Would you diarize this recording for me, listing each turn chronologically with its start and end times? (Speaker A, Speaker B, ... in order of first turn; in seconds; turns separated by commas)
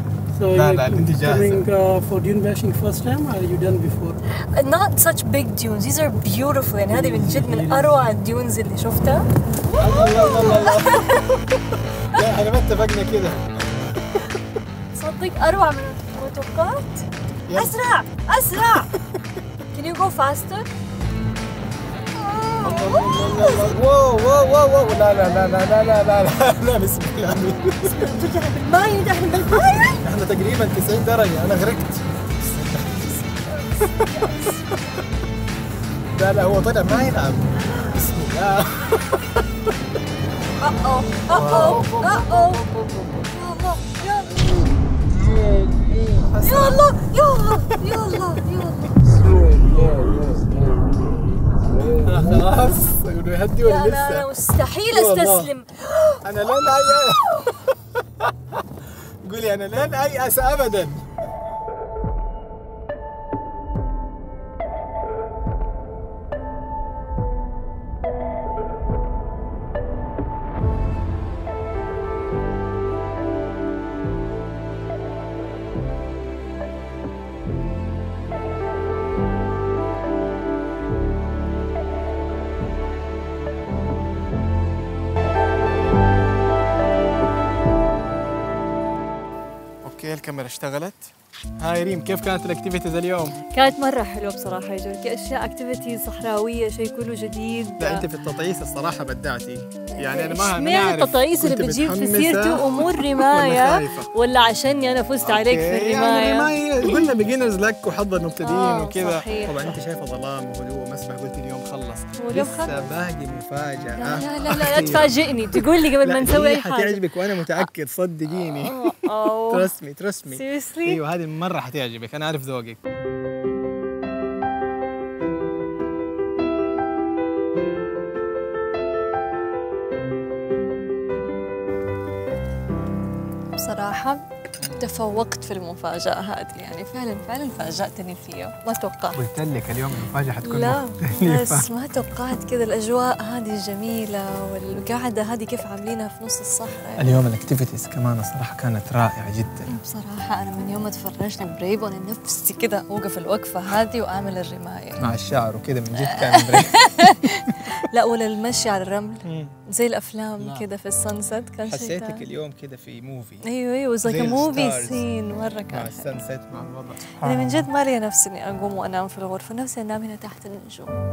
Speaker A: 0.3-4.2, Speaker B: 0.5-1.7, Speaker C: 4.3-11.3, Speaker B: 6.9-7.9, Speaker B: 9.8-14.3, Speaker C: 14.9-18.9, Speaker B: 17.5-17.7, Speaker C: 19.7-20.7, Speaker C: 22.1-23.7, Speaker B: 22.6-28.1, Speaker C: 27.8-30.0, Speaker B: 29.7-34.3, Speaker C: 33.5-34.8, Speaker B: 36.1-39.4, Speaker C: 40.6-42.7, Speaker B: 41.3-42.6, Speaker C: 43.2-44.6, Speaker B: 45.0-46.9, Speaker C: 46.4-49.0, Speaker B: 47.7-48.5, Speaker B: 51.9-54.3, Speaker C: 53.6-57.1, Speaker B: 54.9-55.5, Speaker B: 56.2-58.6, Speaker B: 59.2-61.0, Speaker B: 89.8-93.4, Speaker C: 93.5-98.0, Speaker B: 97.8-104.1, Speaker C: 99.9-107.1, Speaker B: 105.2-122.8, Speaker C: 108.4-109.8, Speaker C: 112.2-112.8, Speaker C: 114.0-117.7, Speaker C: 118.3-119.7, Speaker C: 120.3-121.0, Speaker C: 133.6-139.2, Speaker B: 134.6-134.9, Speaker B: 139.1-141.7, Speaker C: 140.4-147.2, Speaker B: 147.0-149.7, Speaker C: 149.7-155.1, Speaker B: 155.0-157.7, Speaker C: 156.1-162.2, Speaker B: 159.3-159.6, Speaker B: 160.4-160.7, Speaker B: 161.7-163.5, Speaker C: 163.4-166.1, Speaker B: 164.0-165.1, Speaker B: 165.7-167.7, Speaker C: 167.2-170.9